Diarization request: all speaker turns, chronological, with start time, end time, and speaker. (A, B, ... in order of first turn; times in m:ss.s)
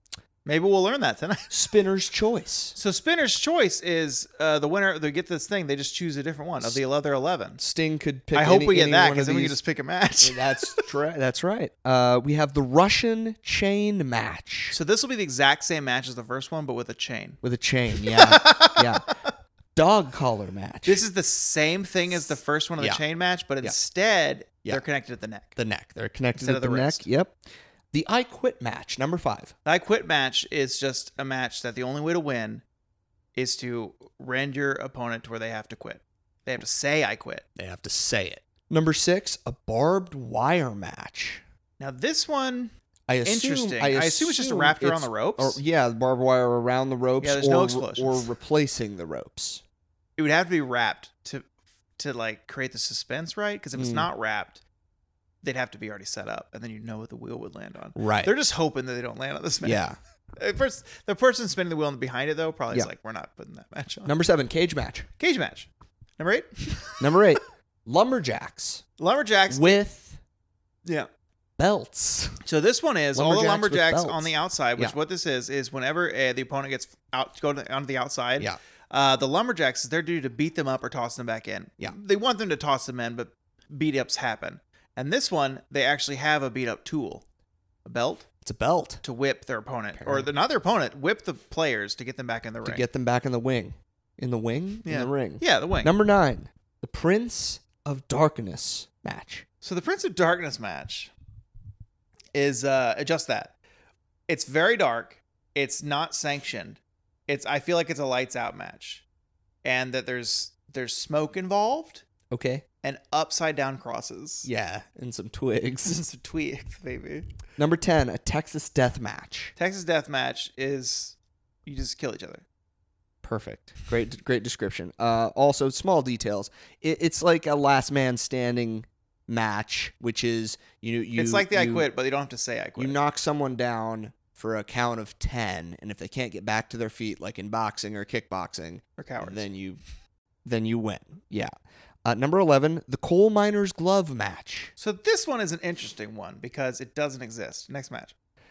0:00.4-0:01.5 A
0:01.5-0:02.8 B
0:02.7-0:07.6 A
0:07.6-0:09.6 B
0:08.3-0:10.9 A
0:10.2-0:14.8 B
0:14.7-0:17.4 A
0:17.4-0:19.0 B
0:17.9-0:19.0 A
0:19.8-0:21.0 B
0:20.8-0:25.6 A
0:25.6-0:27.4 B
0:26.4-0:27.0 A
0:27.9-0:29.5 B
0:29.6-0:32.6 A
0:33.4-0:37.4 A
0:37.6-0:41.4 B
0:41.8-0:42.7 A
0:43.1-0:49.6 B
0:43.2-0:45.6 A
0:47.2-0:48.3 A
0:50.2-0:51.4 A
0:52.0-0:54.6 A
0:53.7-0:54.1 B
0:55.4-0:59.8 A
0:58.0-0:58.3 B
0:59.6-1:00.0 B
1:00.4-1:04.1 A
1:04.0-1:05.1 B
1:05.2-1:07.1 A
1:07.0-1:08.8 B
1:09.0-1:09.8 A
1:09.5-1:10.2 B
1:11.6-1:12.4 B
1:12.4-1:27.2 A
1:13.1-1:14.9 B
1:27.8-1:28.2 A
1:28.4-1:29.0 B
1:29.0-1:32.8 A
1:30.0-1:30.3 B
1:32.6-1:39.4 B
1:34.8-1:35.9 A
1:39.6-1:41.1 A
1:42.3-1:43.5 A
1:44.3-1:49.0 A
1:49.6-1:52.0 A
1:52.3-1:52.6 B
1:52.8-1:54.5 A
1:54.4-1:56.0 B
1:55.8-1:57.3 A
1:57.6-1:59.5 B
1:59.6-2:02.4 A
2:03.2-2:11.9 B
2:11.2-2:13.0 A
2:12.8-2:19.8 B
2:19.0-2:19.4 A
2:20.4-2:21.5 B
2:22.0-2:24.7 B
2:24.8-2:28.1 A